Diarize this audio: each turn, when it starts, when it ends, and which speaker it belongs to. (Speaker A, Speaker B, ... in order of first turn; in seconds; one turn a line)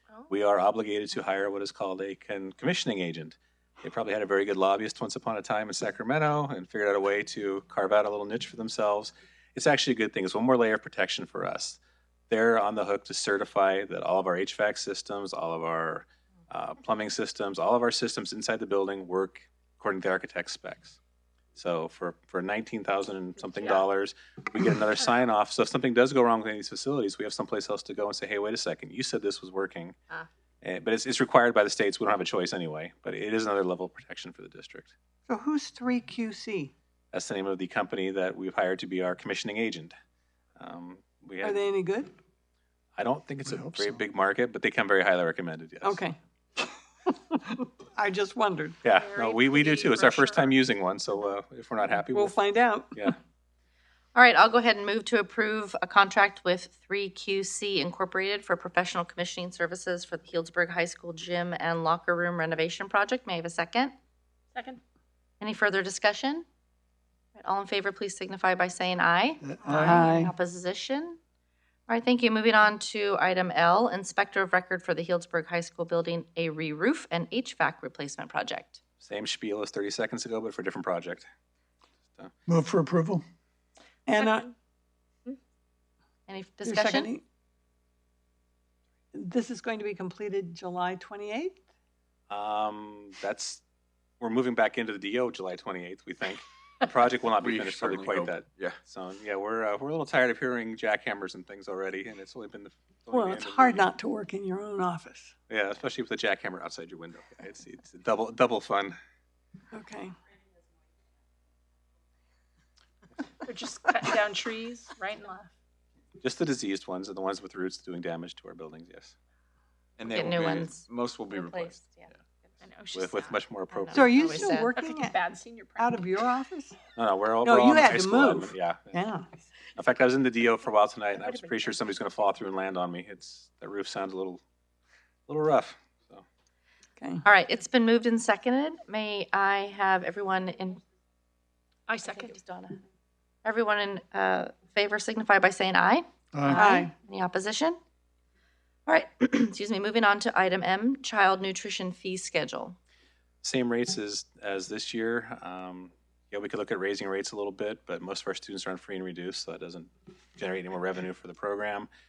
Speaker A: 0.3-21.0
Speaker A: 21.5-29.9
Speaker A: 30.6-34.9
Speaker B: 35.3-36.7
Speaker A: 37.1-39.9
Speaker A: 40.6-41.6
Speaker B: 41.4-42.1
Speaker A: 43.0-46.0
Speaker C: 43.5-44.0
Speaker B: 45.8-46.2
Speaker B: 47.0-48.8
Speaker A: 48.8-52.4
Speaker D: 48.9-50.6
Speaker B: 52.1-53.1
Speaker A: 52.9-53.2
Speaker E: 54.1-63.9
Speaker D: 64.5-64.8
Speaker E: 65.4-66.5
Speaker E: 67.3-71.2
Speaker C: 69.4-70.0
Speaker B: 69.7-70.3
Speaker E: 71.9-78.8
Speaker A: 79.0-81.3
Speaker C: 82.5-83.2
Speaker B: 84.1-84.5
Speaker D: 84.2-84.5
Speaker E: 86.3-87.1
Speaker B: 86.6-87.2
Speaker B: 89.1-91.6
Speaker A: 92.3-93.6
Speaker A: 94.2-103.9
Speaker F: 97.4-98.8
Speaker B: 103.1-105.3
Speaker A: 105.5-109.0
Speaker B: 109.7-110.1
Speaker D: 113.4-115.5
Speaker A: 116.2-119.1
Speaker F: 120.0-121.8
Speaker E: 120.1-122.1
Speaker D: 122.6-123.4
Speaker A: 122.9-124.5
Speaker E: 123.8-124.8
Speaker B: 123.9-125.2
Speaker D: 124.8-125.9
Speaker B: 125.8-126.8
Speaker A: 127.0-129.1
Speaker B: 127.4-129.3
Speaker A: 129.7-134.4
Speaker A: 135.3-136.2
Speaker B: 137.0-137.2
Speaker E: 137.2-140.8
Speaker D: 141.9-142.3
Speaker E: 142.0-142.8
Speaker E: 143.4-147.8
Speaker C: 146.3-146.6
Speaker B: 146.5-146.9
Speaker E: 148.9-152.8
Speaker A: 153.4-161.9